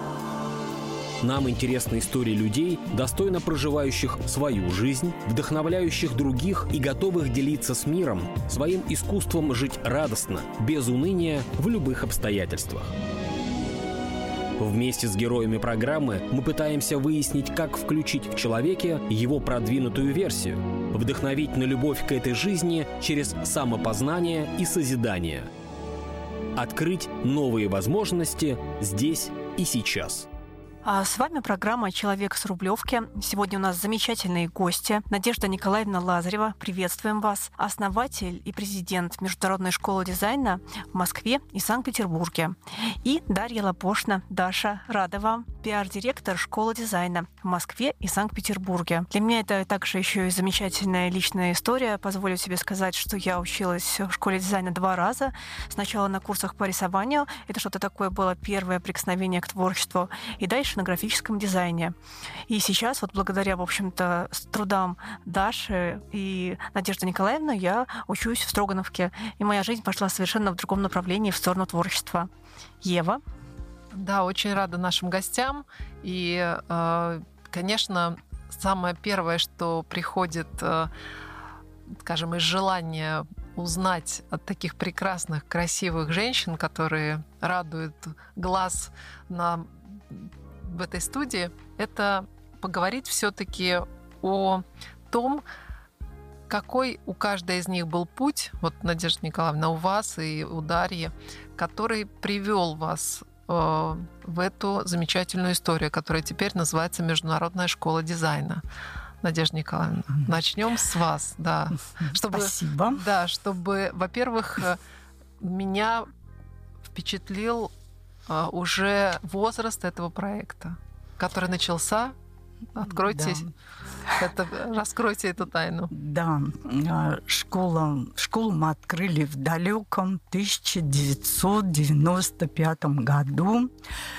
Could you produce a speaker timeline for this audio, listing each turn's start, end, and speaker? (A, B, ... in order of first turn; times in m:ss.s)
0:01.2-0:12.9 A
0:14.6-0:25.5 A
0:26.6-0:30.3 A
0:30.8-1:02.0 B
1:02.5-1:12.3 B
1:12.8-1:13.2 B
1:13.9-1:20.9 C
1:22.0-1:35.4 C
1:36.5-1:48.6 C
1:49.2-1:54.8 C
1:52.0-1:53.0 D
1:55.4-1:56.1 C
1:56.9-1:57.7 C
1:58.3-2:02.2 C
2:02.7-2:03.5 C
2:02.9-2:03.5 D
2:04.2-2:05.9 C
2:05.9-2:13.7 D